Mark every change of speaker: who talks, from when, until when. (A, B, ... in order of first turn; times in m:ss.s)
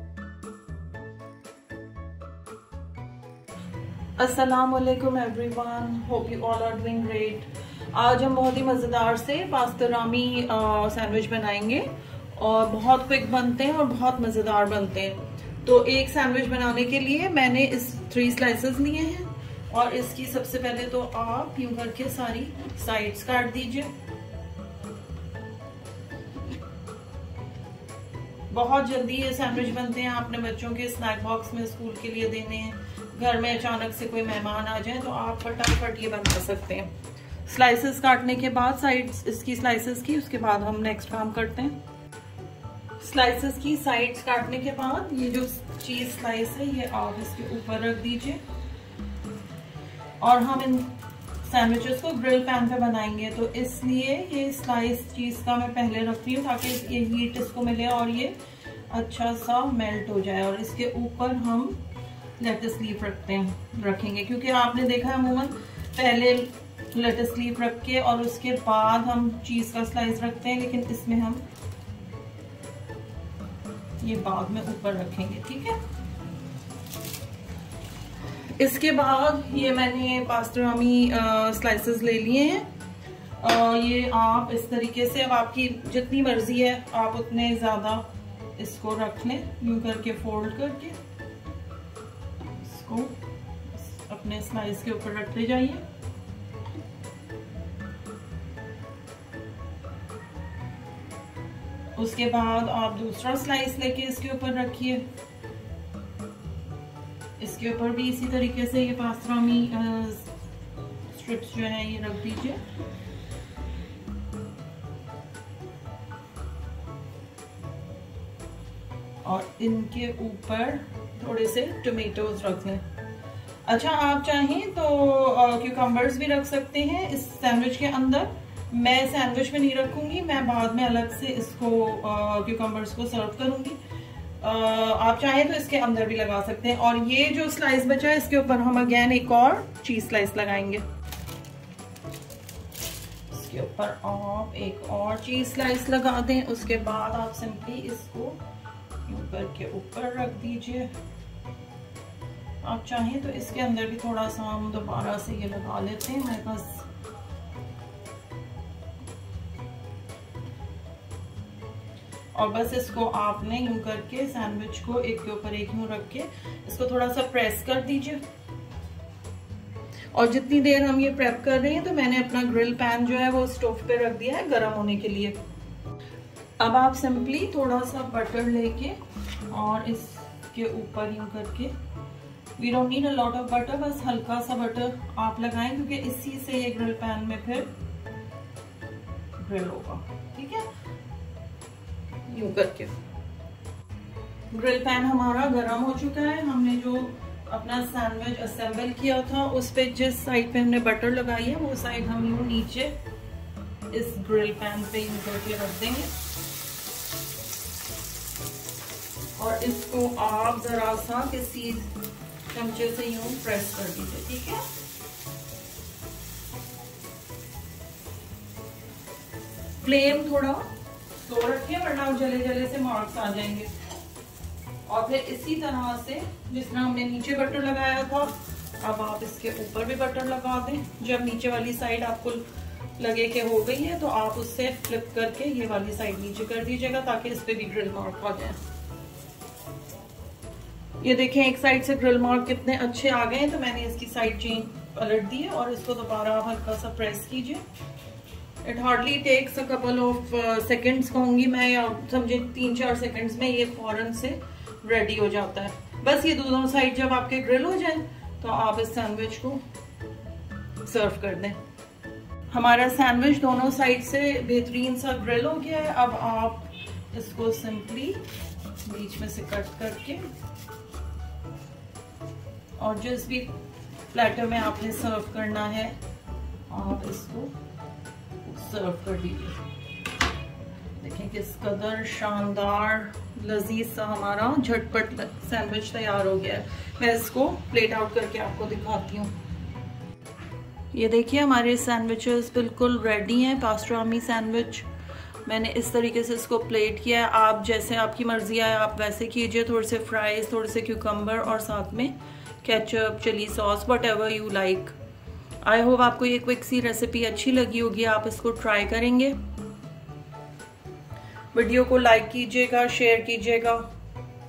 0:04.2-0:23.9 A
0:28.5-0:36.9 A
0:37.4-0:41.8 A
0:43.0-0:48.4 A
0:50.2-0:58.4 A
0:58.9-1:01.8 A
1:02.4-1:11.4 A
1:14.0-1:15.8 A
1:18.5-1:22.7 A
1:23.4-1:31.0 A
1:32.6-1:33.2 A
1:33.7-1:35.8 A
1:42.0-1:45.1 A
1:47.4-1:50.3 A
1:51.1-1:52.6 A
1:59.2-2:02.8 A
2:03.7-2:13.8 A
2:14.4-2:20.8 A
2:23.3-2:28.4 A
2:29.1-2:30.9 A
2:32.6-2:36.9 A
2:42.3-2:48.2 A
2:50.1-2:55.4 A
2:56.6-2:59.0 A
2:59.5-3:01.7 A
3:02.6-3:07.7 A
3:09.4-3:10.7 A
3:12.3-3:12.9 A
3:14.5-3:23.0 A
3:23.9-3:26.1 A
3:29.4-3:31.9 A
3:32.5-3:34.7 A
3:39.8-3:43.7 A
3:44.9-3:52.4 A
3:53.0-3:58.6 A
4:01.0-4:07.6 A
4:08.6-4:19.6 A
4:20.8-4:21.6 A
4:22.5-4:28.2 A
4:28.8-4:30.2 A
4:32.8-4:33.5 A
4:34.1-4:36.0 A
4:36.7-4:37.5 A
4:38.4-4:39.6 A
4:41.0-4:49.3 A
4:50.9-4:54.9 A
4:55.5-5:05.0 A
5:05.6-5:09.4 A
5:11.5-5:13.9 A